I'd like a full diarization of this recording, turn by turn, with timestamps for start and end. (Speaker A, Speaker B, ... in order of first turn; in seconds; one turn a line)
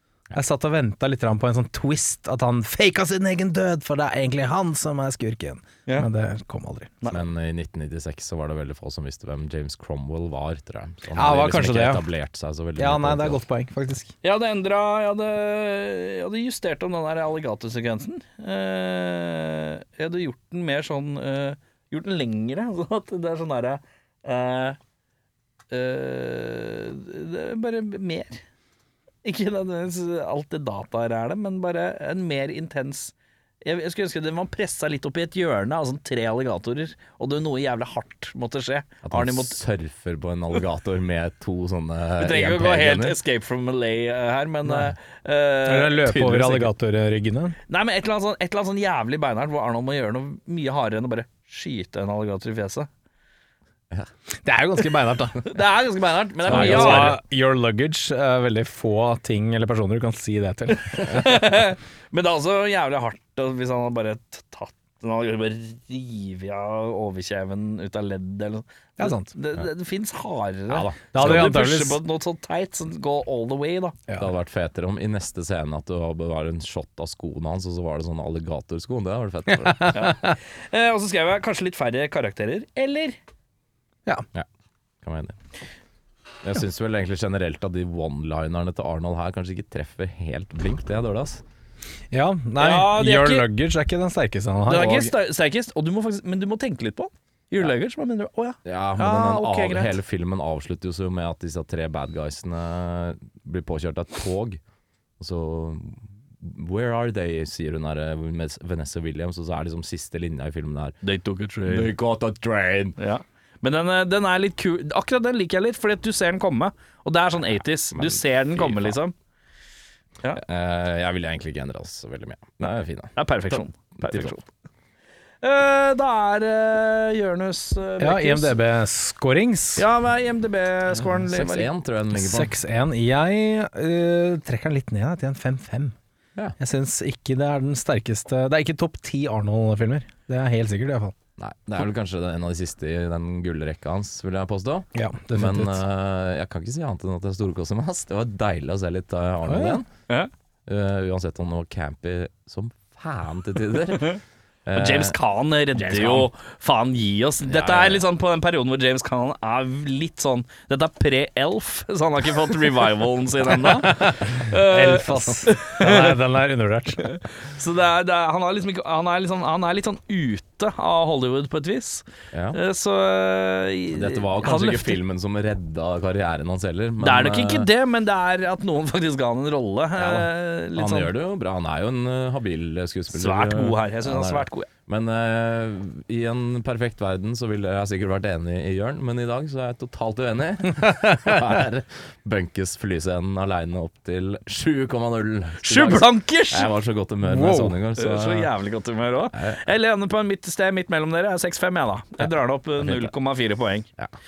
Speaker A: 0.3-7.1
Speaker B: 7.1-13.4
Speaker A: 11.1-12.0
Speaker A: 12.8-14.1
Speaker C: 14.2-24.8
Speaker C: 25.7-28.4
Speaker C: 29.2-39.6
Speaker B: 39.0-43.2
Speaker C: 42.2-46.7
Speaker A: 45.6-47.5
Speaker C: 47.7-52.9
Speaker A: 54.4-55.4
Speaker C: 55.4-57.2
Speaker B: 56.4-57.2
Speaker A: 56.5-61.4
Speaker C: 60.9-74.0
Speaker A: 69.0-69.3
Speaker B: 70.7-71.5
Speaker A: 71.1-72.0
Speaker B: 74.2-80.1
Speaker C: 79.9-83.2
Speaker B: 85.0-85.4
Speaker B: 86.4-91.4
Speaker A: 92.1-95.1
Speaker C: 92.6-93.4
Speaker C: 94.7-99.9
Speaker B: 98.6-104.6
Speaker B: 105.2-111.0
Speaker C: 111.0-111.9
Speaker B: 111.7-113.0
Speaker C: 113.0-119.1
Speaker B: 117.9-119.0
Speaker B: 120.3-124.3
Speaker C: 123.2-124.5
Speaker C: 125.4-128.6
Speaker A: 128.0-129.8
Speaker C: 129.8-131.7
Speaker B: 130.9-132.5
Speaker A: 132.1-135.9
Speaker A: 136.6-141.2
Speaker B: 141.4-149.9
Speaker A: 144.9-145.8
Speaker A: 149.5-149.8
Speaker B: 150.7-155.2
Speaker C: 154.7-166.2
Speaker B: 155.8-156.3
Speaker B: 157.5-158.0
Speaker A: 163.7-167.0
Speaker C: 167.0-175.0
Speaker B: 172.3-172.6
Speaker B: 173.9-177.7
Speaker C: 177.0-181.1
Speaker B: 180.0-198.5
Speaker C: 183.1-184.7
Speaker C: 195.6-196.7
Speaker A: 197.2-197.8
Speaker C: 197.9-203.9
Speaker B: 202.8-203.1